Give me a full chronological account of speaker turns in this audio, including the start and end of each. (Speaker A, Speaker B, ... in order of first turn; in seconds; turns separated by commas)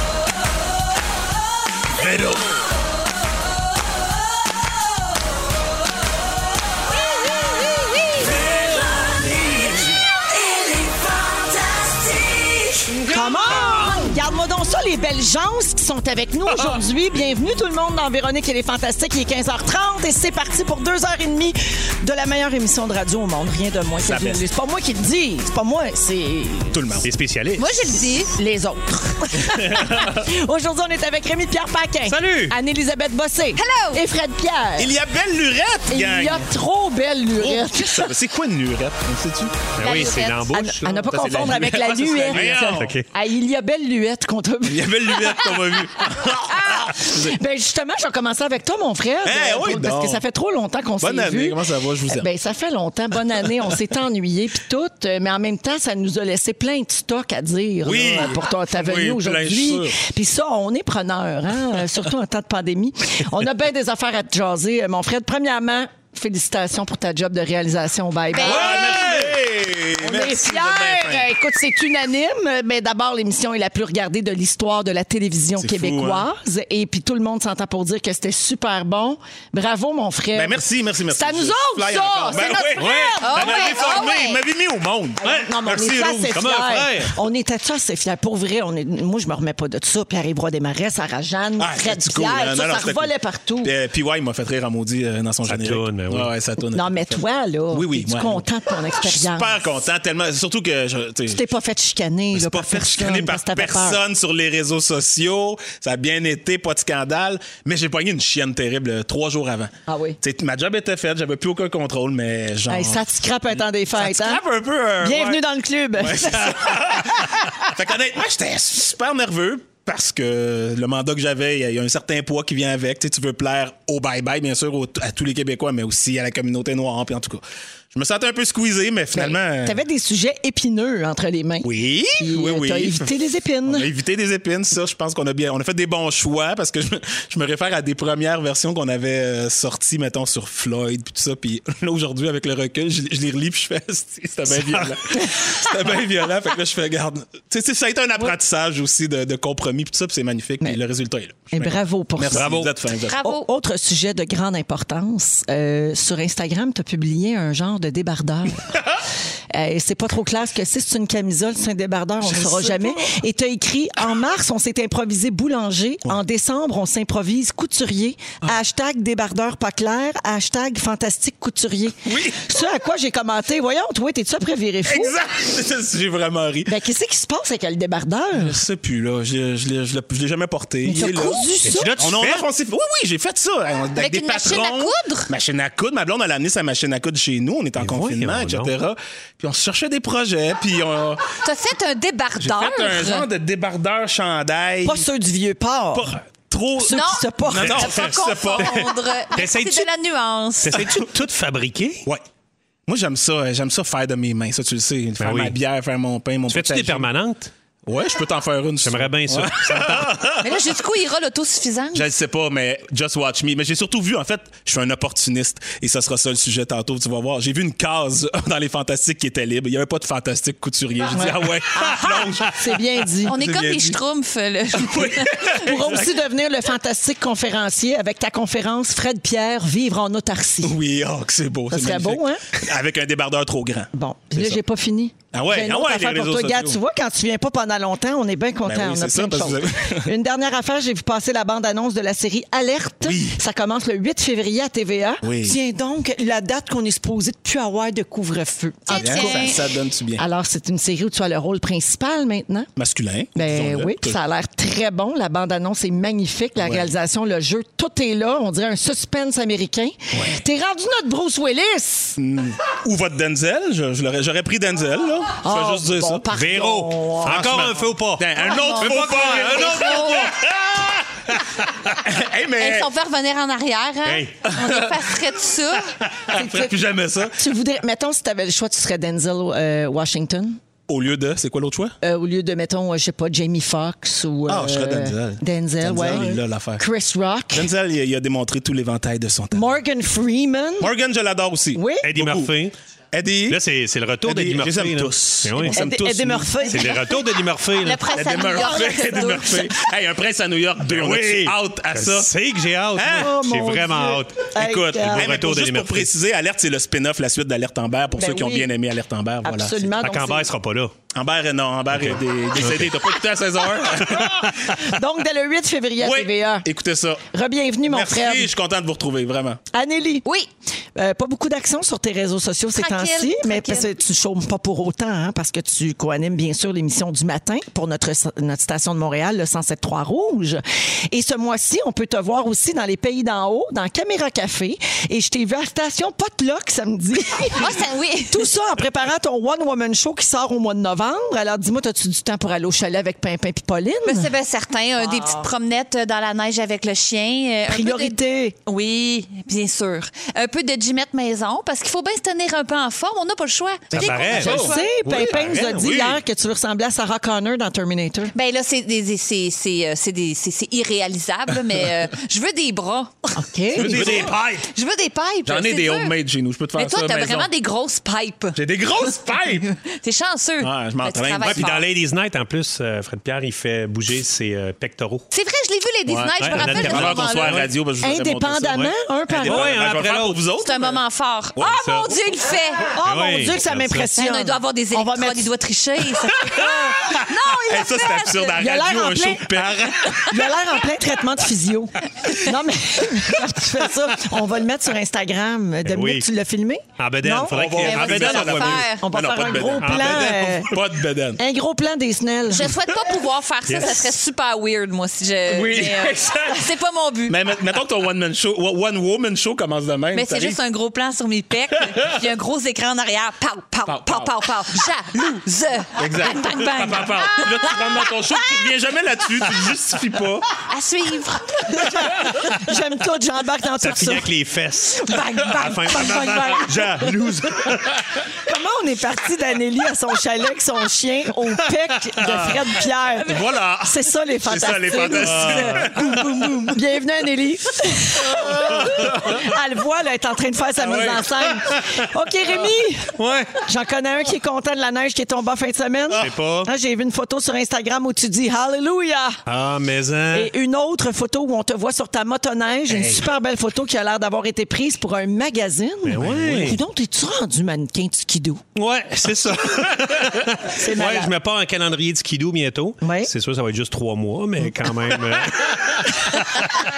Speaker A: 2.0-2.4, Speaker B: 12.9-26.7, Speaker A: 24.0-24.4, Speaker A: 26.7-27.1, Speaker C: 27.0-27.8, Speaker D: 27.6-28.3, Speaker B: 28.3-34.9, Speaker A: 29.4-30.2, Speaker C: 32.1-32.5, Speaker D: 33.6-34.0, Speaker A: 34.8-36.5, Speaker B: 35.9-38.1, Speaker A: 37.3-39.6, Speaker C: 39.8-43.1, Speaker D: 39.8-40.5, Speaker B: 40.5-51.6, Speaker A: 41.1-43.0, Speaker A: 44.6-47.4, Speaker A: 49.2-50.2, Speaker A: 51.0-52.3, Speaker B: 52.1-69.3, Speaker A: 57.8-60.0, Speaker D: 68.3-69.1, Speaker A: 68.4-71.3, Speaker B: 70.0-84.1, Speaker A: 75.6-76.3, Speaker A: 80.3-86.4, Speaker C: 82.7-83.2, Speaker D: 83.2-84.4, Speaker B: 85.2-93.7, Speaker C: 86.3-87.1, Speaker A: 91.6-101.5, Speaker C: 95.5-96.3, Speaker B: 96.7-99.6, Speaker B: 101.3-104.0, Speaker A: 102.3-113.1, Speaker B: 109.9-110.2, Speaker B: 112.7-114.4, Speaker A: 114.0-115.4, Speaker B: 115.0-117.3, Speaker A: 116.0-129.8, Speaker B: 129.1-133.9, Speaker A: 131.6-153.2, Speaker B: 151.5-152.7, Speaker C: 152.3-152.7, Speaker D: 153.0-153.5, Speaker B: 153.3-158.9, Speaker B: 159.5-175.2, Speaker A: 162.2-163.2, Speaker A: 172.0-172.6, Speaker A: 174.8-176.8, Speaker B: 176.7-178.6, Speaker A: 178.3-191.2, Speaker B: 180.8-181.9, Speaker C: 181.6-182.4, Speaker D: 183.9-185.3, Speaker C: 187.8-188.7, Speaker D: 191.4-193.3, Speaker A: 192.4-195.1, Speaker B: 194.8-196.1, Speaker A: 195.9-198.9, Speaker B: 196.8-197.9, Speaker D: 196.8-200.8, Speaker C: 197.6-198.0, Speaker C: 199.3-199.9, Speaker C: 200.6-202.1, Speaker A: 202.9-207.1, Speaker C: 205.2-205.5, Speaker C: 206.5-207.5, Speaker A: 207.8-210.7, Speaker C: 208.8-210.2, Speaker D: 210.4-212.1, Speaker A: 211.9-224.0, Speaker B: 221.1-223.3, Speaker D: 223.2-225.6, Speaker A: 224.7-226.1, Speaker B: 225.4-230.8, Speaker A: 230.6-234.6, Speaker B: 231.7-232.5, Speaker B: 233.9-249.5, Speaker A: 235.3-236.8, Speaker A: 238.6-240.1, Speaker A: 243.0-243.4, Speaker A: 245.2-245.6, Speaker D: 248.9-249.6, Speaker A: 248.9-250.2, Speaker B: 250.2-252.7, Speaker A: 252.8-254.2, Speaker B: 253.3-262.2, Speaker A: 256.6-256.9, Speaker A: 260.1-260.4, Speaker A: 262.2-266.2, Speaker B: 265.4-267.7, Speaker C: 266.3-270.3, Speaker A: 267.2-272.9, Speaker D: 268.3-270.3, Speaker D: 272.6-275.9, Speaker C: 274.0-274.3, Speaker A: 274.5-275.2, Speaker A: 276.0-277.4, Speaker B: 276.3-276.8, Speaker B: 277.3-280.6, Speaker A: 280.9-281.9, Speaker B: 282.0-287.7, Speaker A: 284.5-286.8, Speaker A: 287.5-289.7, Speaker B: 289.5-290.9, Speaker A: 290.8-292.5, Speaker B: 291.7-292.1, Speaker C: 292.0-292.7, Speaker A: 293.1-293.6, Speaker C: 293.5-295.8, Speaker A: 294.2-297.0, Speaker B: 295.6-297.1, Speaker C: 296.6-298.1, Speaker D: 297.8-299.7, Speaker A: 298.1-302.3, Speaker C: 300.9-304.5, Speaker A: 302.9-303.5, Speaker B: 303.1-305.3, Speaker A: 304.5-309.9, Speaker C: 305.1-306.1, Speaker B: 308.1-308.7, Speaker B: 309.4-310.5, Speaker C: 310.0-310.9, Speaker A: 311.1-314.7, Speaker C: 311.9-313.1, Speaker C: 314.0-314.7, Speaker B: 314.7-316.6, Speaker A: 316.0-317.2, Speaker B: 317.3-318.5, Speaker A: 317.8-319.6, Speaker B: 319.7-320.3, Speaker B: 320.9-337.8, Speaker D: 322.7-323.9, Speaker D: 337.6-338.5, Speaker B: 338.3-344.3, Speaker D: 344.0-354.9, Speaker B: 345.1-345.4, Speaker B: 347.7-348.6, Speaker A: 353.9-356.2, Speaker C: 353.9-355.9, Speaker B: 354.1-358.3, Speaker D: 358.3-363.4, Speaker B: 363.4-364.0, Speaker A: 363.7-364.6, Speaker C: 363.8-364.6, Speaker D: 364.0-366.1, Speaker A: 365.4-367.5, Speaker D: 366.8-368.6, Speaker A: 368.5-369.7, Speaker D: 369.8-371.8, Speaker A: 370.6-371.7, Speaker C: 371.4-375.3, Speaker D: 375.3-377.6, Speaker A: 376.1-381.0, Speaker C: 376.4-377.7, Speaker B: 378.0-379.8, Speaker C: 378.7-380.4, Speaker D: 380.6-382.9, Speaker A: 381.6-382.1, Speaker C: 381.6-382.1, Speaker B: 382.9-385.5, Speaker C: 383.0-384.1, Speaker D: 384.1-388.6, Speaker A: 386.4-390.5, Speaker B: 388.6-389.6, Speaker B: 390.3-397.6, Speaker C: 395.8-396.3, Speaker C: 397.0-398.9, Speaker A: 397.5-401.4, Speaker D: 397.8-399.0, Speaker B: 399.0-400.7, Speaker C: 399.8-400.6, Speaker B: 401.4-402.7, Speaker D: 402.5-407.4, Speaker C: 403.6-404.1, Speaker A: 405.4-406.7, Speaker A: 407.3-410.6, Speaker D: 410.1-418.4, Speaker A: 411.8-412.2, Speaker A: 413.9-414.4, Speaker A: 415.9-420.5, Speaker D: 420.7-422.0, Speaker B: 421.7-424.3, Speaker C: 423.8-427.7, Speaker B: 424.9-427.1, Speaker A: 425.6-428.2, Speaker B: 428.3-436.0, Speaker A: 432.1-432.6, Speaker A: 433.2-436.7, Speaker C: 435.1-436.7, Speaker B: 436.6-449.4, Speaker A: 438.2-439.5, Speaker A: 440.8-441.3, Speaker C: 443.1-443.6, Speaker C: 446.2-446.7, Speaker C: 449.5-450.5, Speaker B: 450.3-458.6, Speaker A: 452.9-453.2, Speaker C: 456.0-456.8, Speaker C: 458.7-466.8, Speaker B: 460.7-461.3, Speaker B: 463.0-463.3, Speaker A: 465.1-466.1